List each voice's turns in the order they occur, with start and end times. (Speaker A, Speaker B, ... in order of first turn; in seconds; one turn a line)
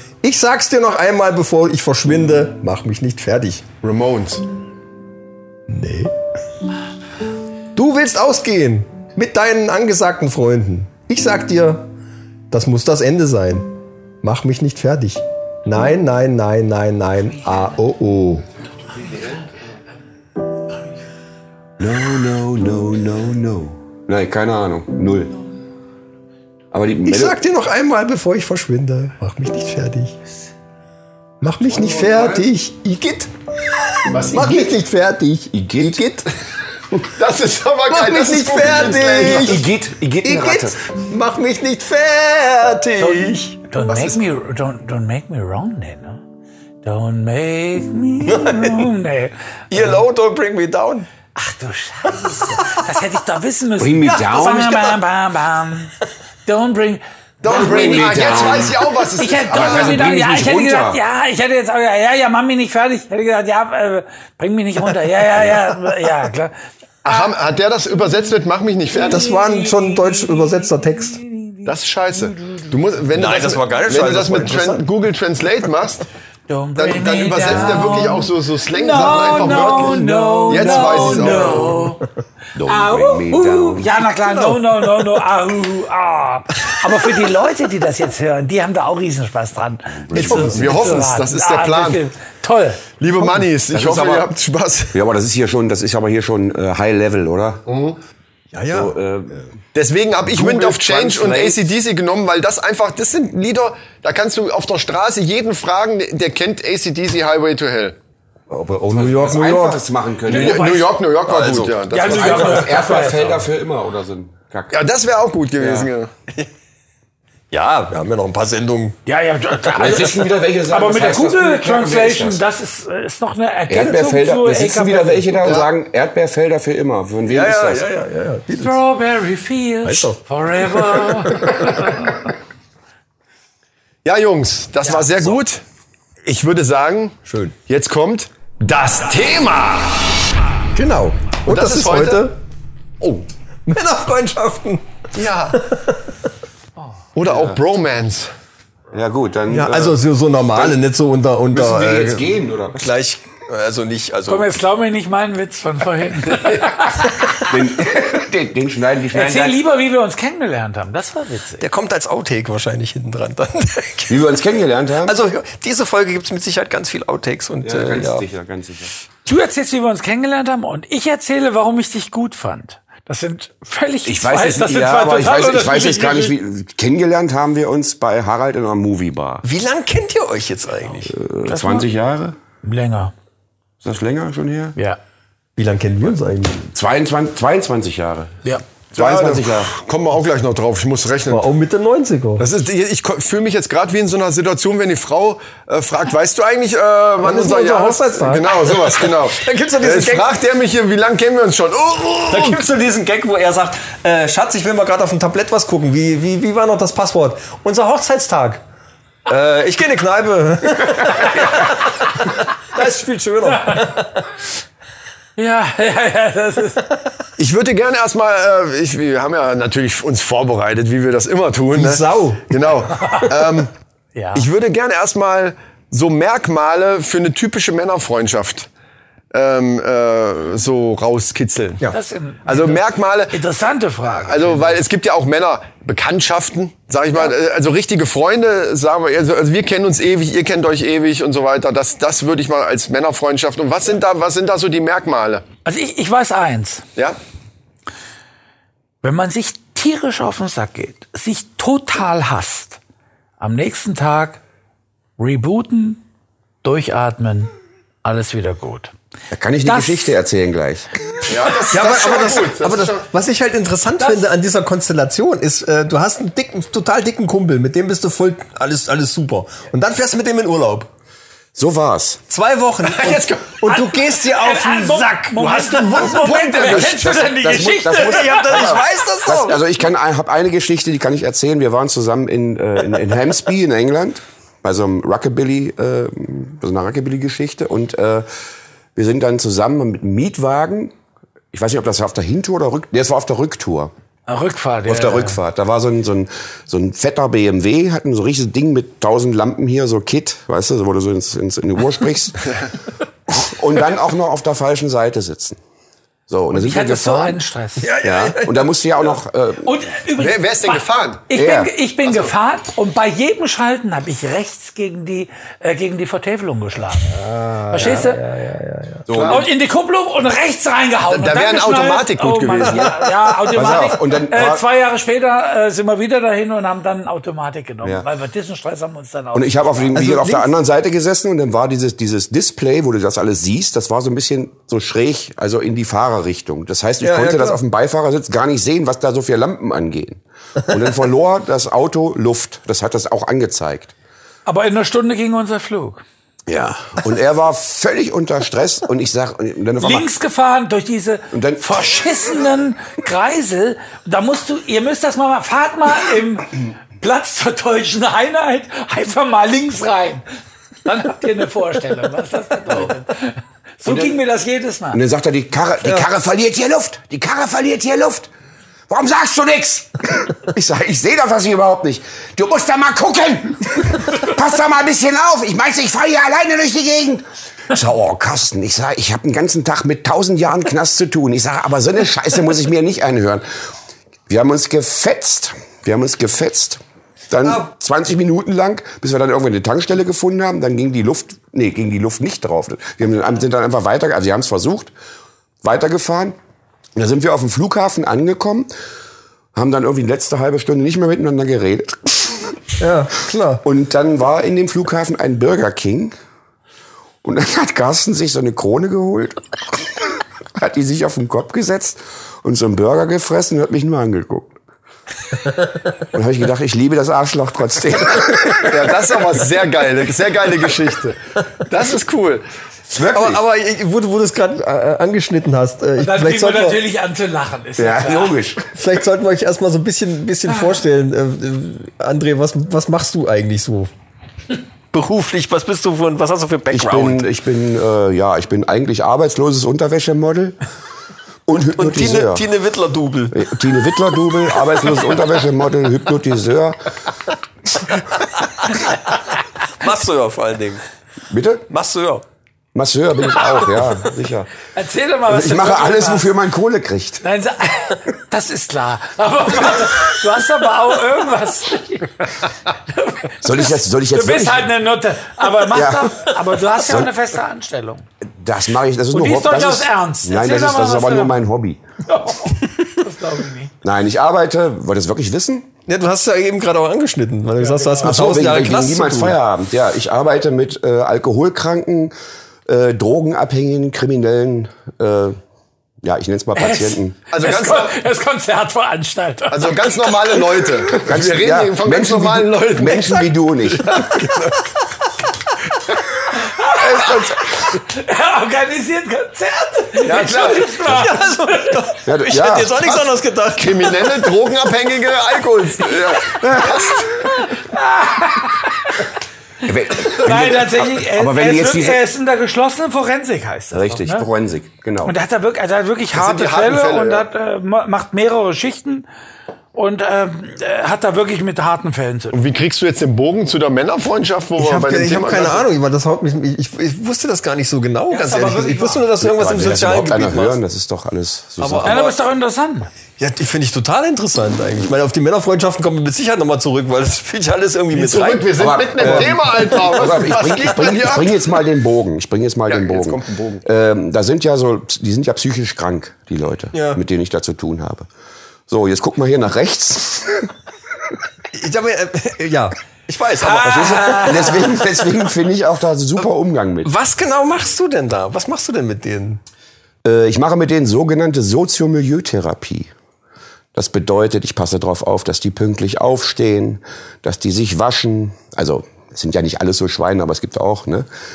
Speaker A: 0.2-3.6
Speaker B: 3.8-4.4
Speaker A: 5.7-6.2
Speaker A: 7.8-11.9
Speaker A: 12.5-18.4
Speaker C: 21.8-25.4
Speaker C: 26.7-27.4
Speaker A: 27.1-30.2
Speaker A: 31.4-36.3
Speaker C: 31.8-32.4
Speaker B: 34.0-34.7
Speaker C: 35.5-36.0
Speaker B: 37.0-39.7
Speaker A: 37.9-39.6
Speaker C: 39.2-40.8
Speaker A: 40.2-43.6
Speaker D: 43.0-46.2
Speaker B: 43.9-44.2
Speaker D: 46.8-50.0
Speaker A: 48.2-48.9
Speaker A: 49.7-51.1
Speaker D: 51.4-55.9
Speaker C: 53.8-54.9
Speaker D: 56.5-58.5
Speaker B: 57.4-60.1
Speaker C: 57.5-59.0
Speaker D: 59.2-66.5
Speaker C: 59.5-61.0
Speaker B: 67.0-69.2
Speaker A: 68.9-71.2
Speaker D: 69.2-70.5
Speaker D: 71.2-71.7
Speaker B: 71.7-76.0
Speaker D: 72.3-72.6
Speaker A: 73.1-74.9
Speaker D: 76.5-82.0
Speaker B: 76.8-81.8
Speaker A: 79.2-81.9
Speaker C: 82.6-84.0
Speaker D: 82.7-92.8
Speaker A: 84.3-85.1
Speaker C: 90.0-90.9
Speaker A: 90.1-90.8
Speaker B: 90.2-92.0
Speaker B: 93.0-95.0
Speaker C: 93.7-94.3
Speaker C: 94.9-97.6
Speaker B: 97.7-98.0
Speaker A: 98.5-99.0
Speaker C: 98.7-99.4
Speaker B: 99.8-108.0
Speaker A: 100.3-101.6
Speaker A: 108.5-109.8
Speaker C: 108.9-114.8
Speaker B: 110.3-112.9
Speaker D: 110.3-110.9
Speaker D: 111.9-113.5
Speaker B: 114.7-116.1
Speaker A: 117.5-119.0
Speaker D: 119.1-125.6
Speaker C: 119.7-122.4
Speaker C: 123.7-127.9
Speaker B: 125.4-125.7
Speaker A: 127.3-128.8
Speaker D: 128.6-132.2
Speaker A: 129.8-131.7
Speaker B: 134.1-135.6
Speaker B: 136.2-140.1
Speaker A: 137.3-137.6
Speaker A: 140.8-142.4
Speaker B: 141.5-142.3
Speaker A: 143.7-144.8
Speaker B: 145.1-145.6
Speaker A: 145.5-146.0
Speaker B: 147.2-148.3
Speaker C: 147.3-147.6
Speaker C: 148.9-150.8
Speaker A: 149.5-154.5
Speaker C: 151.5-152.9
Speaker D: 154.3-157.4
Speaker C: 157.3-159.6
Speaker D: 159.1-161.7
Speaker A: 161.6-164.3
Speaker C: 164.1-165.2
Speaker A: 165.0-168.3
Speaker C: 167.6-168.9
Speaker D: 169.3-176.4
Speaker C: 174.1-179.4
Speaker A: 179.4-181.1
Speaker C: 181.1-182.4
Speaker D: 181.5-181.9
Speaker D: 182.6-183.1
Speaker C: 183.8-184.8
Speaker A: 185.6-186.6
Speaker C: 186.6-188.4
Speaker C: 188.9-189.7
Speaker B: 188.9-191.5
Speaker A: 191.3-192.5
Speaker B: 192.4-202.7
Speaker A: 197.2-200.3
Speaker A: 202.3-208.6
Speaker A: 209.3-214.3
Speaker D: 213.5-213.9
Speaker D: 215.4-216.9
Speaker B: 217.4-223.7
Speaker A: 221.7-222.4
Speaker D: 223.0-223.3
Speaker D: 224.2-224.5
Speaker B: 224.3-228.7
Speaker B: 229.3-231.8
Speaker D: 231.9-234.8
Speaker B: 232.5-233.4
Speaker B: 234.3-245.4
Speaker D: 245.7-246.8
Speaker D: 249.0-252.8
Speaker D: 253.4-254.4
Speaker D: 255.2-256.0
Speaker D: 256.6-257.5
Speaker D: 258.0-258.9
Speaker C: 259.3-260.9
Speaker D: 259.6-260.1
Speaker B: 261.3-263.0
Speaker A: 261.7-270.9
Speaker D: 264.0-264.3
Speaker C: 271.6-272.2
Speaker A: 272.3-275.4
Speaker B: 272.9-273.5
Speaker D: 273.7-278.8
Speaker B: 275.4-277.0
Speaker C: 276.6-288.3
Speaker A: 277.9-279.6
Speaker C: 289.0-290.9
Speaker C: 291.5-293.9
Speaker D: 294.3-295.4
Speaker C: 294.9-302.6
Speaker C: 303.3-305.6
Speaker C: 306.3-307.4
Speaker D: 306.5-307.9
Speaker A: 307.8-309.2
Speaker C: 308.0-309.7
Speaker D: 309.6-318.2
Speaker B: 310.2-311.3
Speaker C: 311.3-311.7
Speaker C: 317.3-318.0
Speaker A: 317.7-319.2
Speaker C: 319.1-319.5
Speaker B: 319.1-319.4
Speaker D: 319.2-330.2
Speaker B: 321.1-323.0
Speaker C: 323.5-324.6
Speaker C: 329.3-343.9
Speaker A: 329.9-330.5
Speaker A: 337.0-337.6
Speaker D: 344.5-346.0
Speaker C: 346.5-350.1
Speaker D: 349.8-360.2
Speaker C: 351.3-351.7
Speaker D: 360.9-365.0
Speaker C: 363.9-364.1
Speaker C: 364.9-368.3
Speaker C: 368.9-383.5
Speaker C: 384.3-394.9
Speaker A: 387.4-387.7
Speaker C: 395.6-396.4
Speaker C: 396.9-398.7
Speaker C: 399.5-402.6
Speaker A: 402.8-403.6
Speaker C: 403.6-406.1
Speaker C: 407.2-414.6
Speaker C: 416.1-419.0
Speaker B: 418.6-422.4
Speaker C: 422.9-423.4
Speaker A: 423.1-426.8
Speaker D: 426.0-428.4
Speaker C: 427.8-428.7
Speaker A: 428.7-433.9
Speaker A: 434.9-437.2
Speaker C: 436.7-440.6
Speaker C: 441.5-442.4
Speaker A: 441.8-443.5
Speaker C: 443.3-446.9
Speaker A: 449.8-450.8
Speaker C: 451.3-451.7
Speaker A: 451.7-452.2
Speaker C: 452.7-454.5
Speaker D: 454.7-456.3
Speaker C: 455.3-457.2
Speaker D: 457.2-468.1
Speaker C: 463.4-464.7
Speaker C: 465.7-467.1
Speaker C: 468.2-471.8
Speaker D: 469.1-471.4
Speaker D: 472.1-473.7
Speaker C: 473.8-475.7
Speaker A: 475.9-479.4
Speaker D: 477.6-478.1
Speaker C: 478.0-482.1
Speaker C: 482.7-485.4
Speaker C: 486.0-487.2
Speaker D: 486.6-490.4
Speaker B: 487.3-488.0
Speaker B: 489.5-494.6
Speaker C: 490.9-494.1
Speaker D: 496.3-501.9
Speaker B: 496.8-497.4
Speaker B: 500.0-500.7
Speaker A: 500.8-504.3
Speaker C: 502.1-502.8
Speaker B: 502.9-507.2
Speaker C: 506.2-506.8
Speaker D: 507.1-509.1
Speaker C: 509.6-512.0
Speaker D: 510.0-514.3
Speaker C: 513.7-515.1
Speaker D: 515.0-519.1
Speaker B: 516.1-517.3
Speaker D: 519.8-522.4
Speaker B: 522.3-525.7
Speaker A: 524.6-530.6
Speaker D: 528.1-529.1
Speaker C: 529.2-532.0
Speaker A: 531.6-532.2
Speaker D: 531.8-532.9
Speaker A: 533.2-540.2
Speaker B: 537.9-541.5
Speaker C: 538.6-548.1
Speaker B: 542.7-543.6
Speaker A: 546.7-547.0
Speaker C: 548.7-550.5
Speaker A: 551.5-554.9
Speaker D: 553.4-554.8
Speaker C: 553.5-556.9
Speaker A: 556.8-559.4
Speaker C: 560.0-562.9
Speaker C: 563.7-571.1